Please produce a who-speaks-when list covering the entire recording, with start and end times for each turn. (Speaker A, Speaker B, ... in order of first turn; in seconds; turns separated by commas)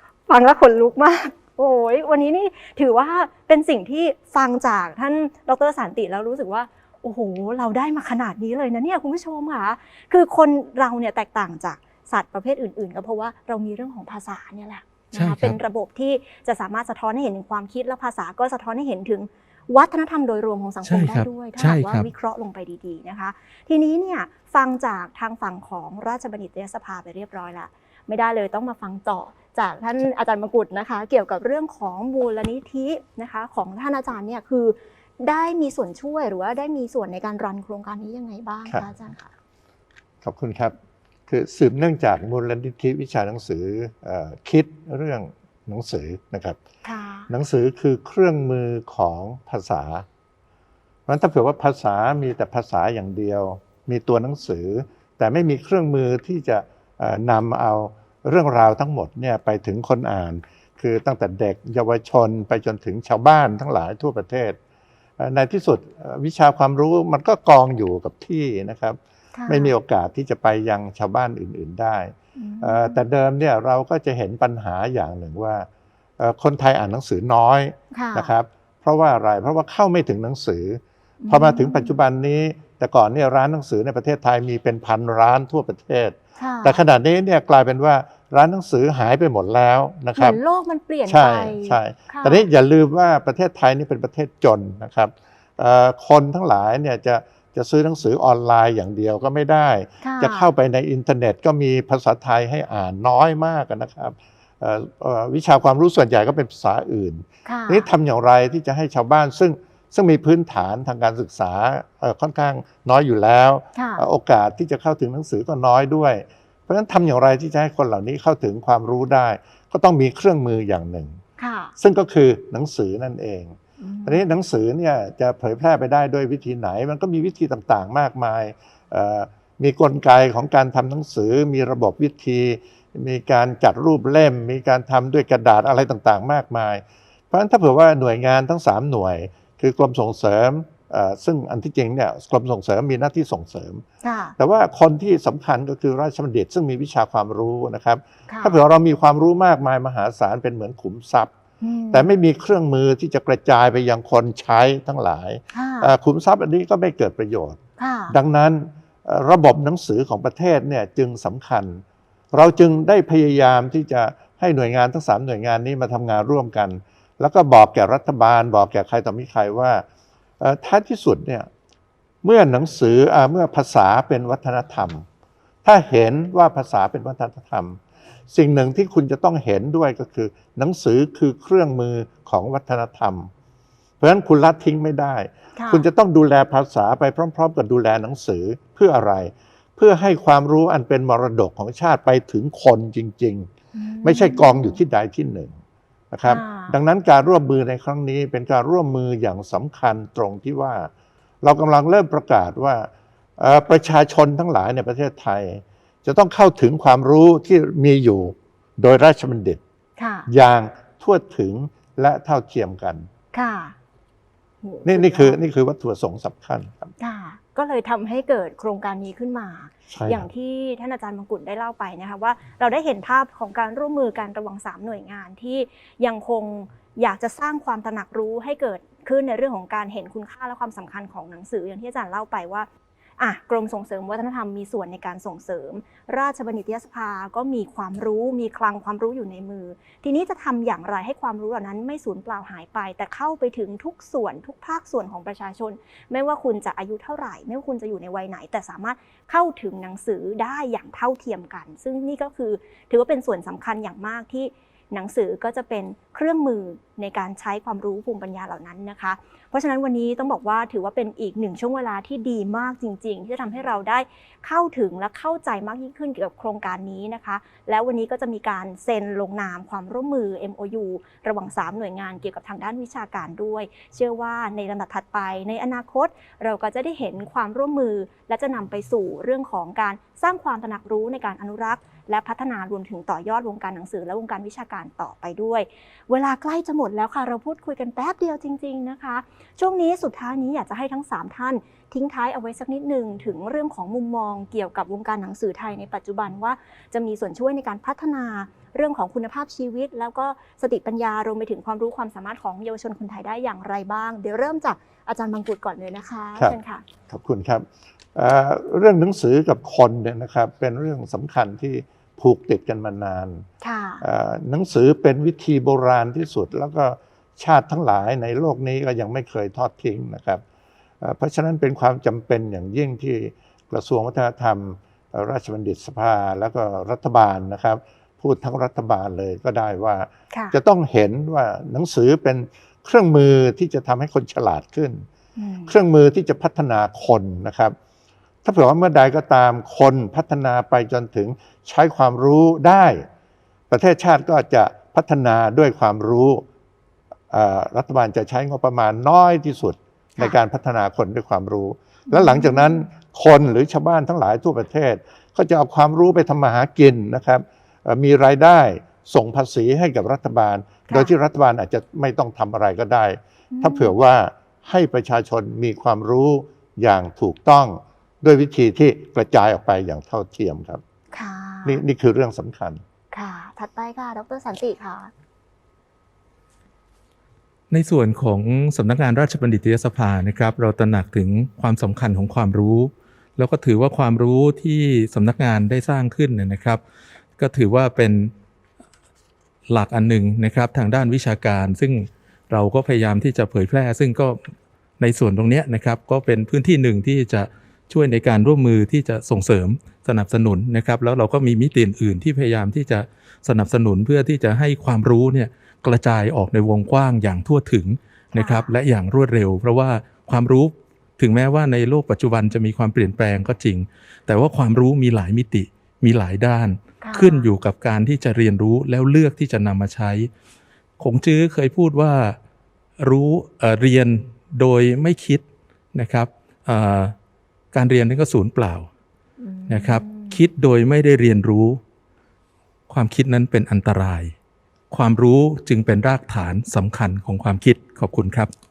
Speaker A: 0.3-39.3, Speaker B: 15.1-15.6, Speaker B: 20.8-22.1, Speaker C: 40.2-40.7, Speaker C: 41.3-46.6, Speaker A: 46.8-47.3, Speaker C: 47.3-50.0, Speaker C: 51.1-64.6, Speaker C: 65.2-75.7, Speaker A: 69.3-69.7, Speaker A: 72.3-73.0, Speaker C: 76.2-90.4, Speaker A: 77.9-78.3, Speaker A: 81.2-81.9, Speaker A: 86.4-86.8, Speaker A: 90.2-92.5, Speaker C: 91.1-121.2, Speaker A: 100.0-100.5, Speaker A: 107.5-107.9, Speaker A: 113.7-114.0, Speaker A: 121.4-121.7, Speaker C: 121.8-143.8, Speaker A: 123.8-124.2, Speaker A: 144.0-144.4, Speaker C: 144.4-151.3, Speaker A: 148.3-148.6, Speaker A: 151.6-152.1, Speaker C: 151.9-157.6, Speaker A: 155.5-155.9, Speaker A: 157.8-158.1, Speaker C: 158.1-169.8, Speaker C: 170.4-171.5, Speaker C: 172.2-175.0, Speaker C: 175.6-177.8, Speaker C: 178.3-183.3, Speaker C: 184.0-193.5, Speaker A: 185.6-185.8, Speaker A: 193.7-194.8, Speaker C: 194.0-195.5, Speaker C: 196.1-200.9, Speaker A: 196.2-196.8, Speaker C: 201.4-209.6, Speaker A: 210.0-210.3, Speaker C: 210.3-213.1, Speaker A: 213.3-213.7, Speaker A: 214.6-215.4, Speaker C: 214.8-216.9, Speaker A: 217.0-306.8, Speaker C: 219.9-220.2, Speaker C: 307.1-313.5, Speaker A: 313.6-314.0, Speaker C: 314.0-320.4, Speaker C: 321.0-335.1, Speaker A: 330.3-330.6, Speaker A: 335.4-335.7, Speaker C: 335.7-337.7, Speaker C: 338.4-343.1, Speaker C: 343.7-346.4, Speaker C: 347.3-370.8, Speaker A: 352.1-352.8, Speaker A: 360.9-361.1, Speaker A: 363.5-363.9, Speaker A: 371.1-371.8, Speaker C: 371.6-372.8, Speaker A: 373.1-375.1, Speaker B: 377.7-386.8, Speaker B: 387.4-388.3, Speaker B: 389.7-394.4, Speaker B: 395.0-420.3, Speaker A: 408.3-408.7, Speaker A: 417.0-417.5, Speaker B: 421.0-422.4, Speaker B: 423.0-427.1, Speaker B: 427.7-428.9, Speaker A: 429.4-430.4, Speaker B: 429.7-431.8, Speaker B: 432.9-434.3, Speaker B: 434.9-438.5